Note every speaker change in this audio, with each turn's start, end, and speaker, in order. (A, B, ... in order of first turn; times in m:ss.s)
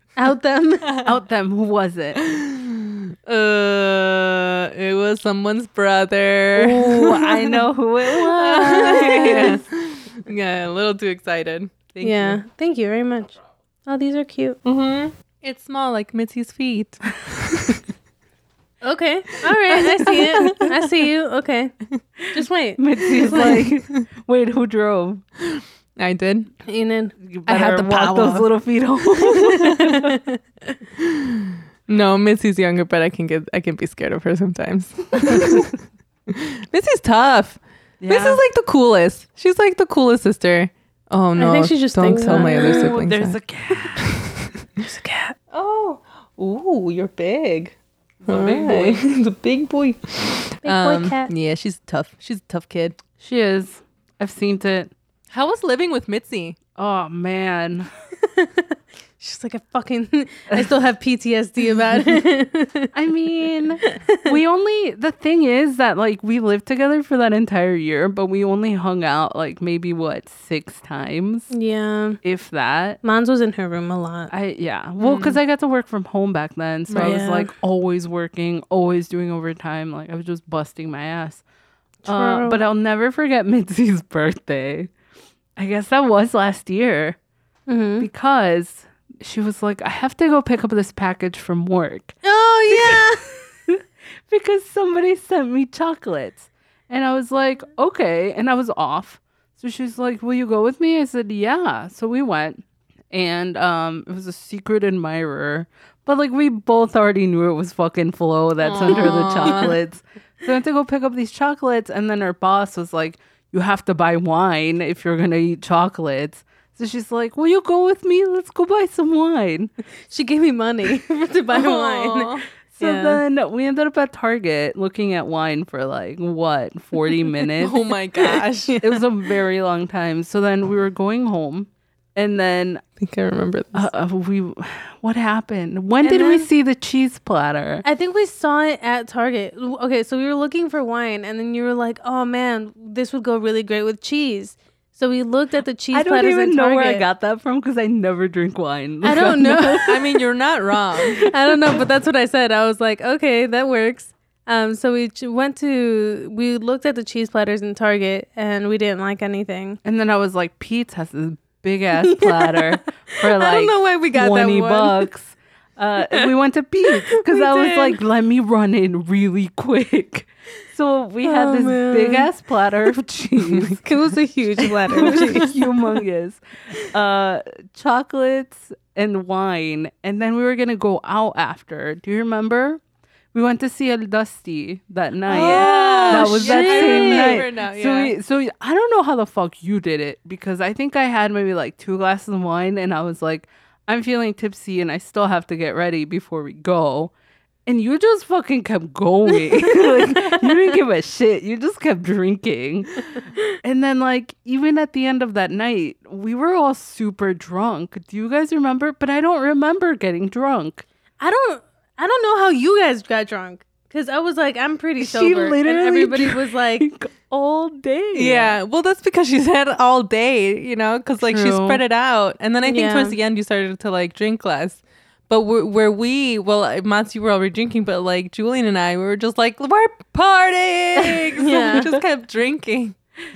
0:00.2-0:01.0 A
0:00.8-0:01.1 B
0:01.0-0:02.2 C
0:02.2-0:07.6 B
0:06.5-0:09.6 C
0:08.3-0:11.7 B
0:11.9-0:12.4 C
0:12.0-0:14.6 A
0:14.6-0:17.8 B
0:18.8-0:23.7 A
0:19.8-0:20.7 B
0:22.8-0:25.2 C
0:25.5-0:26.5 B
0:26.7-0:27.2 A
0:27.2-0:30.1 C
0:27.5-0:28.5 B
0:29.7-0:30.4 A
0:31.0-0:35.7 B
0:35.2-0:35.6 C
0:36.3-0:43.4 B
0:38.0-0:38.4 C
0:41.4-0:43.0 A
0:42.2-0:44.1 C
0:44.0-0:44.4 B
0:44.8-0:45.4 A
0:45.5-0:47.8 B
0:48.3-0:49.0 A
0:48.3-0:53.0 B
0:50.6-0:51.3 A
0:53.2-0:54.9 C
0:55.3-0:56.6 B
0:56.8-0:57.9 C
0:58.2-1:02.9 A
1:02.9-1:11.5 C
1:03.8-1:04.4 A
1:11.5-1:12.2 A
1:12.2-1:13.0 C
1:13.0-1:14.3 A
1:14.3-1:21.4 C
1:15.0-1:15.4 B
1:16.9-1:17.2 B
1:17.0-1:17.5 A
1:22.0-1:22.6 A
1:22.1-1:24.9 C
1:25.6-1:27.2 C
1:27.7-1:28.1 A
1:28.0-1:32.2 C
1:32.2-1:33.2 A
1:32.7-1:59.7 C
1:48.6-1:49.7 B
2:00.1-2:03.2 A
2:01.5-2:02.4 B
2:02.8-2:07.9 C
2:07.6-2:09.0 B
2:08.2-2:08.7 A
2:08.8-2:12.8 C
2:13.0-2:13.9 B
2:13.7-2:17.8 C
2:16.0-2:16.5 A
2:17.8-2:27.0 A
2:25.9-2:30.0 C
2:29.0-2:30.2 A
2:29.9-2:31.3 B
2:31.1-2:39.8 A
2:39.8-2:53.8 C
2:42.1-2:42.4 A
2:43.6-2:44.1 B
2:43.9-2:45.0 A
2:47.3-2:47.9 A
2:51.2-2:52.3 A
2:53.8-2:55.6 A
2:54.9-2:55.3 B
2:55.0-3:02.8 C
3:03.3-3:17.1 C
3:05.3-3:08.1 B
3:05.3-3:07.5 A
3:17.7-3:23.0 C
3:23.6-3:30.8 C
3:31.2-3:36.9 A
3:35.0-3:38.6 C
3:38.2-3:53.0 B
3:41.2-3:41.8 C
3:42.6-3:43.2 A
3:51.4-3:51.9 A